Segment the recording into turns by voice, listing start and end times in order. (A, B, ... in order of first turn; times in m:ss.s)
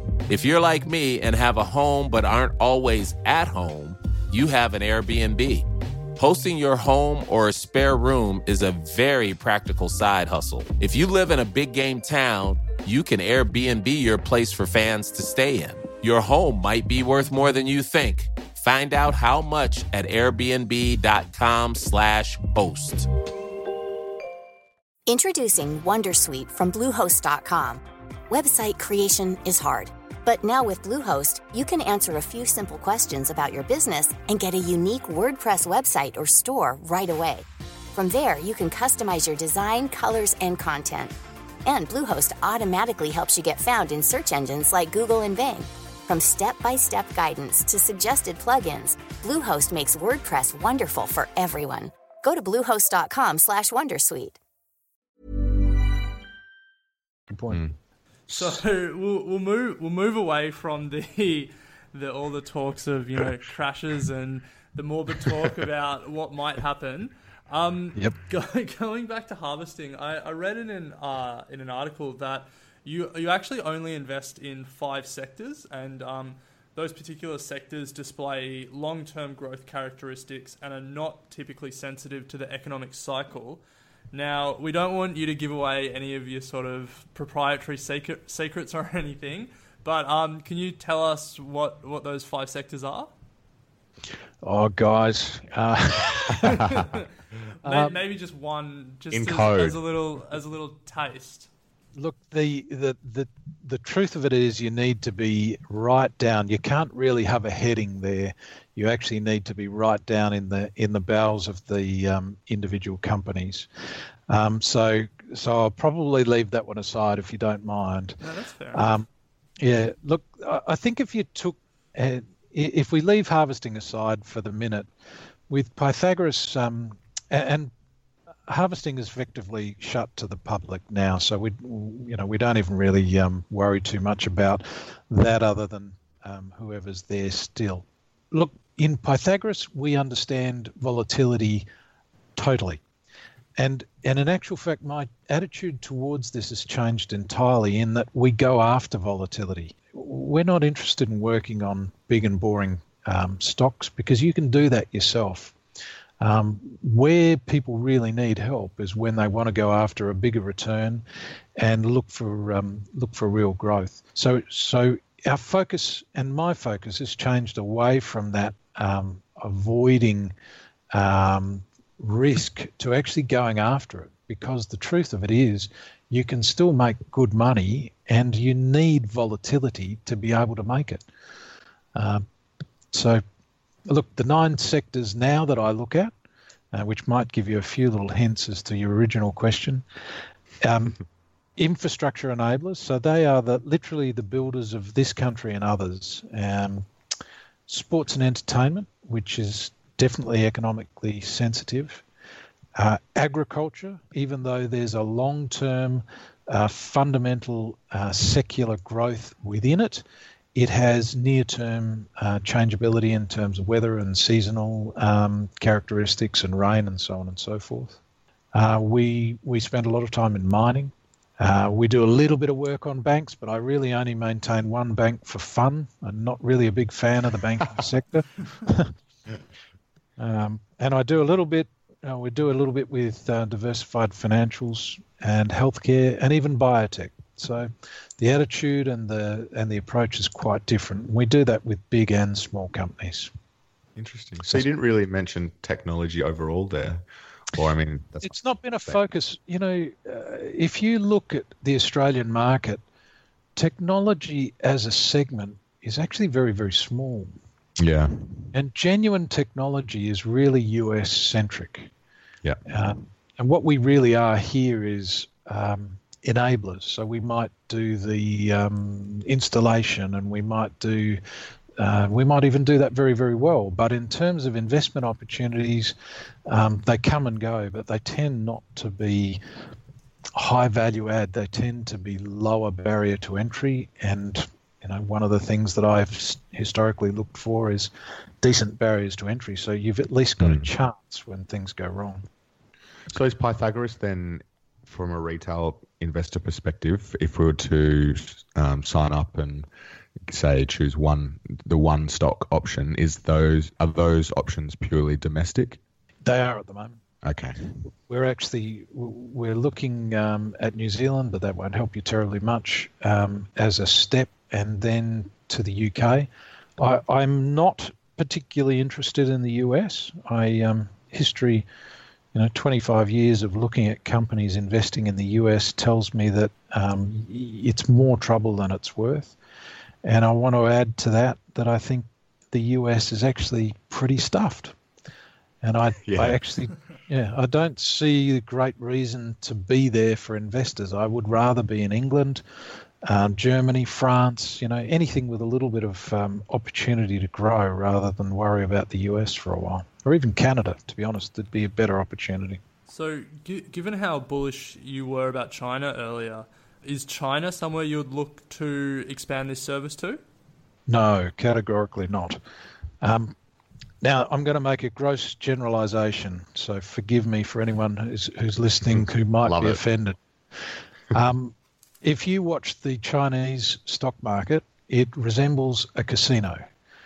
0:00.3-0:23.1 A
0:25.1-0:54.4 B
0:57.3-0:57.6 C
0:58.3-1:23.6 D
1:24.1-1:33.1 D
1:34.4-1:36.6 C
1:36.6-1:37.1 D
1:37.6-1:38.0 C
1:37.6-1:41.5 D
1:39.1-1:39.8 E
1:42.0-1:53.7 C
1:54.3-1:58.2 C
1:58.2-1:58.9 D
1:58.7-1:59.1 C
1:59.6-2:04.9 C
2:05.5-2:07.7 C
2:08.5-2:21.7 C
2:22.4-2:22.8 C
2:23.6-2:35.6 C
2:36.2-2:41.0 C
2:41.6-2:50.4 C
2:50.9-3:01.0 C
3:02.0-3:02.2 C
3:02.9-3:03.2 C
3:03.9-3:06.1 C
3:06.7-3:09.8 C
3:10.6-3:11.0 C
3:11.6-3:16.9 C
3:17.7-3:22.0 C
3:22.8-3:30.0 C
3:30.6-3:38.0 C
3:38.5-3:48.9 C
3:50.2-4:03.3 C
4:04.0-4:08.3 E
4:08.2-4:12.8 C
4:13.6-4:17.4 C
4:17.8-4:18.5 E
4:18.5-4:21.9 C
4:22.7-4:31.2 C
4:31.8-4:36.0 C
4:36.5-4:39.4 C
4:40.3-4:52.2 C
4:50.4-4:50.7 E
4:53.1-4:59.7 E
5:00.3-5:05.8 E
5:06.2-5:07.0 C
5:07.2-5:07.8 E
5:07.9-5:21.7 C
5:22.3-5:29.4 C
5:30.0-5:34.8 C
5:35.6-5:42.4 C
5:36.0-5:36.4 E
5:43.0-5:52.6 C
5:52.9-6:00.2 D
6:00.9-6:02.4 C
6:03.0-6:03.4 C
6:04.0-6:10.2 C
6:09.4-6:09.8 E
6:11.1-6:16.6 C